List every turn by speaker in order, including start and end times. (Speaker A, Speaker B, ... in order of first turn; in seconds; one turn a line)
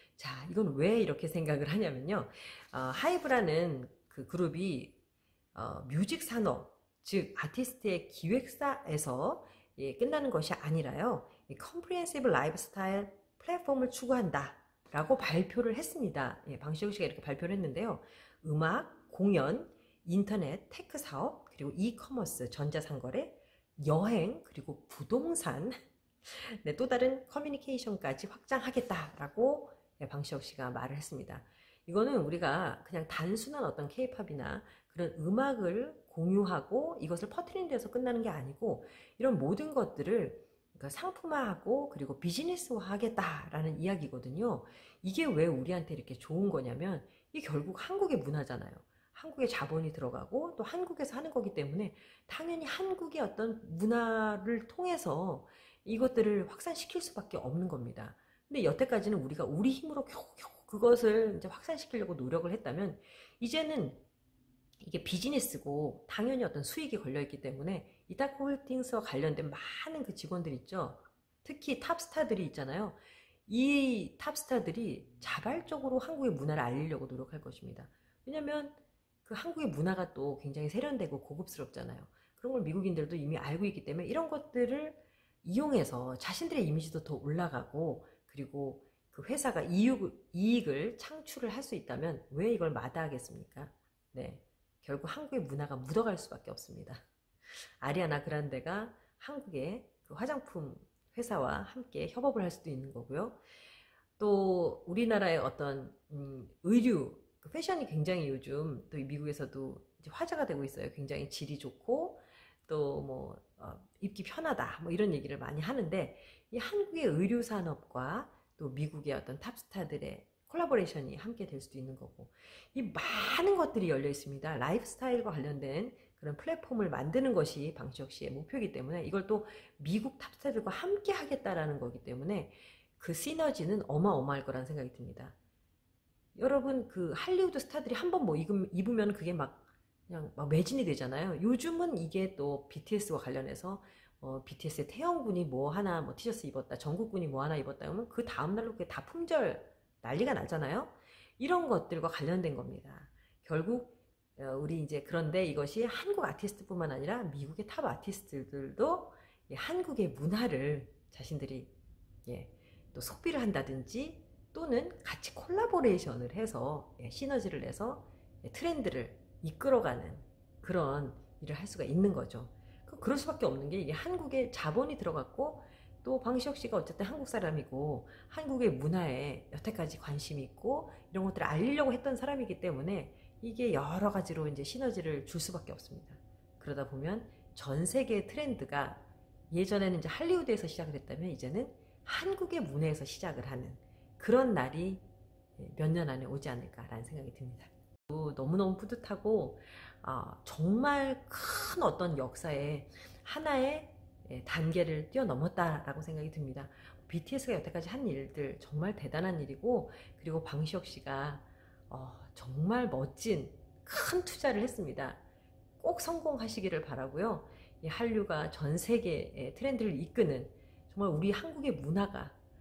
Speaker A: 0.2-5.0
Speaker A: 5.5-64.0
Speaker A: 64.8-97.0
Speaker A: 97.8-103.4
Speaker A: 104.2-135.3
Speaker A: 136.3-161.7
Speaker A: 162.2-195.0
Speaker A: 195.6-215.2
Speaker A: 215.8-222.3